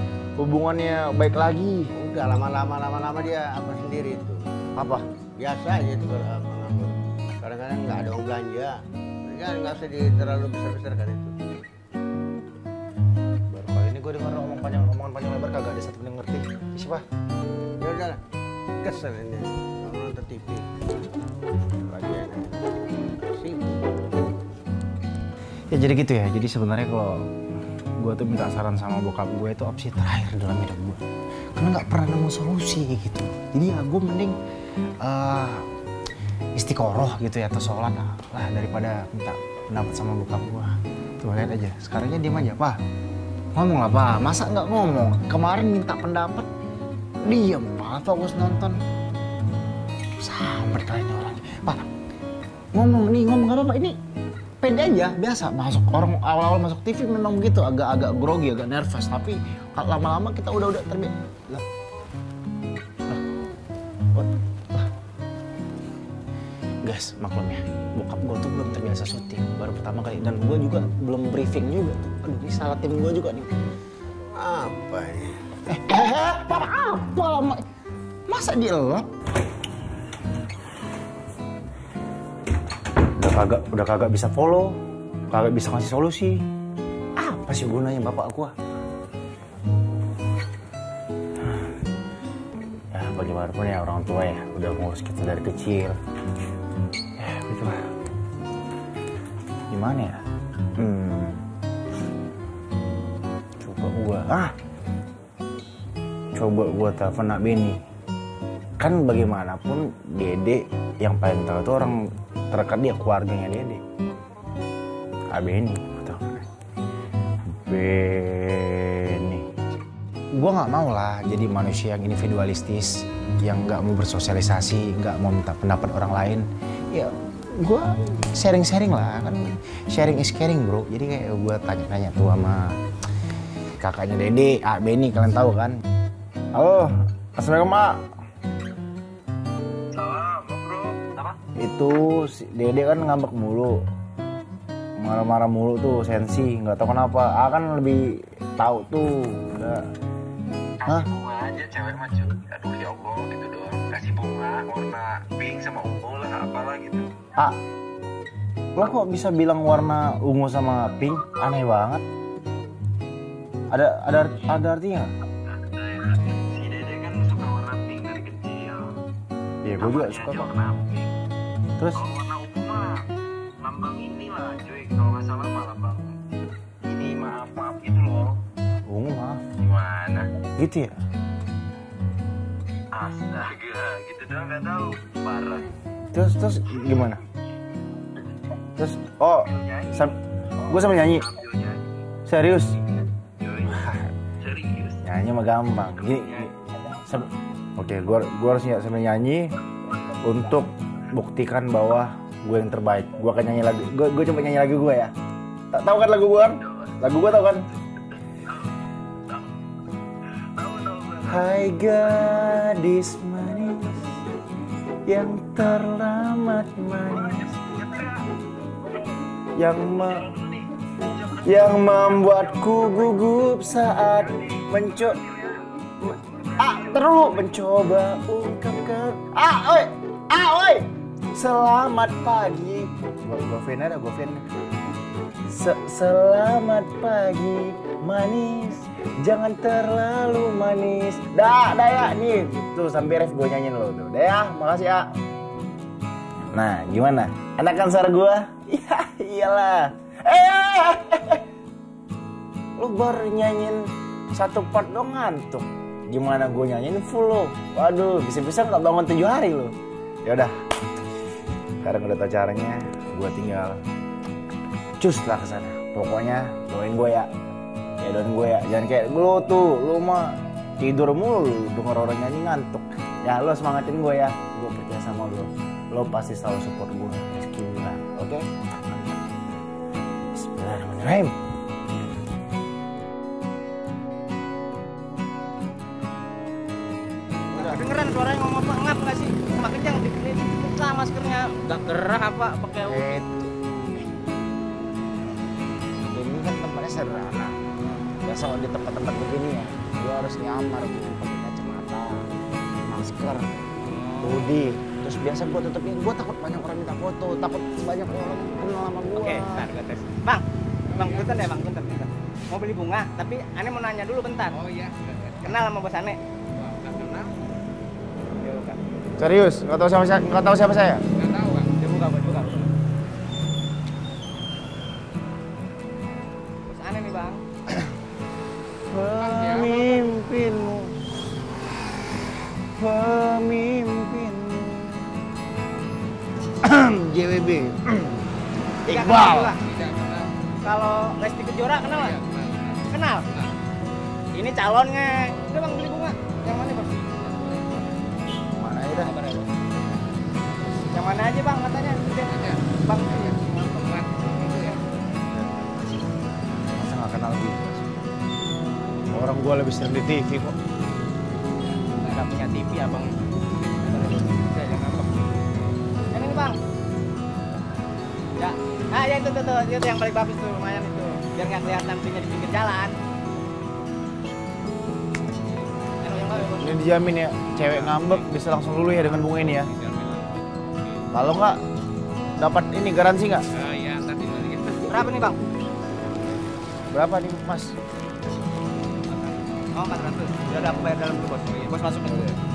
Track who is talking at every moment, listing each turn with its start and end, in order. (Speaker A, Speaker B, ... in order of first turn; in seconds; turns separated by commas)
Speaker A: 0.4-1.9, Speaker B: 2.0-4.4, Speaker A: 4.8-5.0, Speaker B: 5.3-11.3, Speaker A: 13.5-17.0, Speaker B: 17.8-18.2, Speaker B: 18.8-20.6, Speaker B: 22.0-22.5, Speaker B: 23.3-23.9, Speaker A: 25.7-27.2, Speaker A: 28.0-31.0, Speaker A: 31.6-34.4, Speaker A: 35.0-35.6, Speaker A: 36.5-42.8, Speaker A: 43.5-46.5, Speaker A: 47.2-48.8, Speaker A: 50.2-51.9, Speaker A: 52.7-54.0, Speaker A: 54.6-61.6, Speaker A: 64.1-64.9, Speaker A: 66.8-73.5, Speaker B: 74.3-75.3, Speaker A: 75.7-77.6, Speaker A: 78.3-79.1, Speaker A: 83.2-84.8, Speaker A: 85.3-86.4, Speaker A: 87.2-88.5, Speaker A: 92.9-96.0, Speaker A: 97.2-97.8, Speaker A: 99.7-100.2, Speaker A: 100.8-101.4, Speaker A: 103.6-104.5, Speaker A: 106.3-107.8, Speaker A: 108.8-112.0, Speaker A: 112.5-113.8, Speaker A: 115.3-116.5, Speaker A: 117.5-119.4, Speaker A: 120.4-132.7, Speaker A: 133.8-135.8, Speaker A: 136.5-138.0, Speaker C: 139.9-141.4, Speaker A: 141.6-143.8, Speaker A: 145.0-148.0, Speaker A: 148.6-149.8, Speaker C: 150.8-157.1, Speaker A: 158.8-162.0, Speaker A: 163.7-165.1, Speaker C: 165.5-168.9, Speaker A: 169.6-170.5, Speaker C: 169.8-171.1, Speaker C: 171.9-173.0, Speaker C: 173.6-176.1, Speaker C: 176.8-178.3, Speaker A: 178.8-179.4, Speaker C: 179.6-180.3, Speaker A: 180.6-180.9, Speaker C: 182.9-185.7, Speaker A: 186.1-187.2, Speaker A: 188.8-190.2, Speaker C: 189.3-190.1, Speaker C: 190.7-191.8, Speaker A: 190.7-191.2, Speaker A: 192.2-192.8, Speaker C: 193.4-195.0, Speaker A: 193.7-194.1, Speaker A: 195.0-196.5, Speaker C: 195.9-196.5, Speaker A: 197.1-199.5, Speaker A: 200.2-205.1, Speaker A: 205.7-207.6, Speaker C: 206.6-206.9, Speaker C: 208.3-208.7, Speaker C: 210.6-211.4, Speaker A: 211.3-214.1, Speaker A: 215.1-217.4, Speaker C: 217.1-218.2, Speaker A: 219.6-220.2, Speaker C: 220.1-223.5, Speaker A: 221.4-225.2, Speaker C: 224.1-227.6, Speaker A: 226.6-234.4, Speaker A: 235.5-245.1, Speaker A: 246.5-251.4, Speaker A: 252.8-260.5, Speaker A: 261.8-263.8, Speaker A: 265.0-267.3, Speaker A: 268.0-279.1, Speaker A: 280.3-281.3, Speaker A: 287.5-287.9, Speaker D: 287.5-293.2, Speaker A: 292.8-294.1, Speaker A: 296.1-297.6, Speaker A: 298.2-302.2, Speaker A: 302.9-303.6, Speaker D: 303.8-304.5, Speaker A: 304.2-309.7, Speaker D: 309.1-310.4, Speaker E: 310.9-311.4, Speaker D: 310.9-314.6, Speaker E: 314.5-315.6, Speaker D: 315.4-316.2, Speaker E: 316.5-317.3, Speaker D: 318.4-318.8, Speaker A: 319.2-321.0, Speaker E: 321.1-321.8, Speaker D: 321.7-322.7, Speaker D: 326.7-327.4, Speaker A: 328.9-330.9, Speaker E: 329.2-329.9, Speaker A: 332.8-335.1, Speaker A: 336.6-338.2, Speaker A: 338.9-339.5, Speaker D: 338.9-339.6, Speaker E: 339.5-340.2, Speaker D: 340.6-342.1, Speaker E: 341.7-343.5, Speaker D: 342.9-343.2, Speaker D: 344.3-347.2, Speaker E: 347.2-347.6, Speaker A: 348.6-349.1, Speaker D: 348.9-349.5, Speaker D: 350.9-354.6, Speaker E: 352.2-352.7, Speaker E: 353.7-354.7, Speaker A: 355.3-355.9, Speaker A: 356.7-357.8, Speaker A: 359.1-360.6, Speaker D: 361.6-363.1, Speaker D: 363.8-365.4, Speaker D: 366.1-366.6, Speaker D: 368.4-372.9, Speaker D: 376.0-376.7, Speaker A: 376.3-379.7, Speaker E: 377.6-378.2, Speaker E: 378.9-381.0, Speaker A: 381.1-381.6, Speaker A: 382.4-383.4, Speaker E: 383.5-385.3, Speaker D: 384.9-385.4, Speaker A: 386.9-387.7, Speaker D: 389.7-392.4